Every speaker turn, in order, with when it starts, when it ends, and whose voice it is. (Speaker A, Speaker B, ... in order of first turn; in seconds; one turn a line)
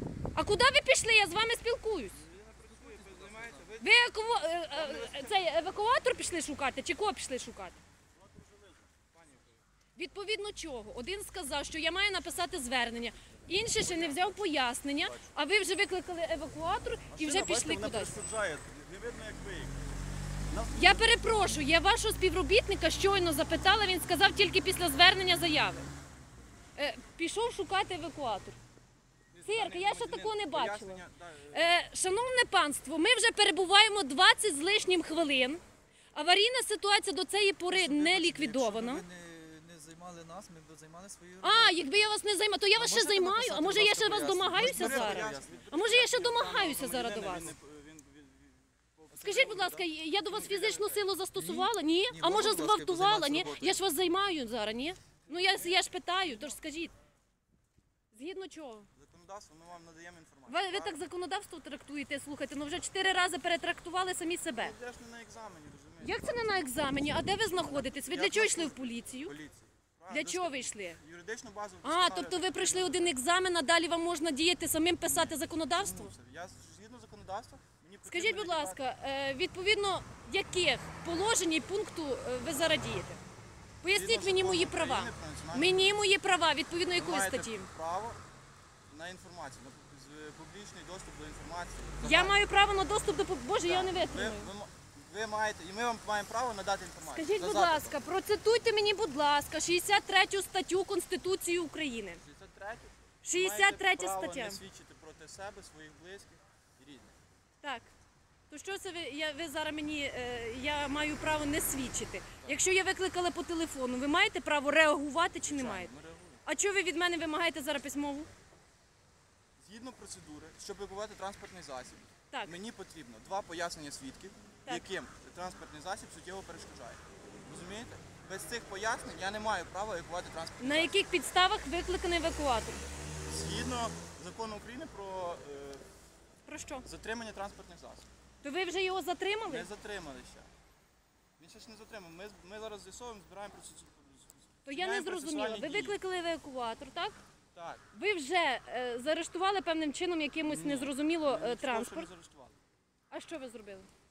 Speaker A: 0.3-2.2
Speaker B: 2.3-4.0
Speaker C: 2.5-3.6
Speaker A: 3.8-7.8
Speaker B: 4.5-5.5
Speaker D: 8.1-8.9
Speaker B: 9.1-9.6
Speaker A: 9.9-18.2
Speaker B: 13.8-14.3
Speaker D: 17.1-19.8
Speaker D: 20.5-21.0
Speaker A: 20.7-25.9
Speaker A: 26.8-28.6
Speaker B: 29.3-31.7
Speaker A: 29.4-35.6
Speaker A: 36.1-39.0
Speaker C: 37.7-41.8
Speaker A: 41.4-47.5
Speaker C: 42.8-45.6
Speaker B: 44.5-51.0
Speaker A: 49.1-56.9
Speaker C: 51.3-53.8
Speaker B: 55.3-55.8
Speaker A: 58.1-58.9
Speaker B: 58.9-61.0
Speaker A: 60.5-64.7
Speaker B: 64.5-73.1
Speaker A: 66.0-69.3
Speaker A: 70.1-71.0
Speaker A: 71.8-76.1
Speaker B: 75.0-78.8
Speaker A: 78.0-83.2
Speaker A: 83.8-87.7
Speaker B: 83.9-85.8
Speaker B: 86.9-88.2
Speaker B: 88.9-92.4
Speaker A: 92.0-94.5
Speaker B: 93.6-98.0
Speaker A: 97.1-102.2
Speaker B: 102.2-107.2
Speaker A: 103.2-104.6
Speaker A: 107.6-107.9
Speaker A: 108.5-115.9
Speaker B: 115.4-116.4
Speaker A: 116.4-118.3
Speaker B: 119.6-130.9
Speaker A: 122.3-122.6
Speaker A: 130.6-132.8
Speaker B: 133.3-135.8
Speaker A: 136.4-136.8
Speaker B: 136.8-138.1
Speaker A: 138.4-139.7
Speaker B: 139.5-140.5
Speaker B: 141.4-146.0
Speaker A: 144.7-147.2
Speaker B: 147.5-147.8
Speaker A: 147.9-152.1
Speaker B: 150.4-152.6
Speaker A: 153.1-153.9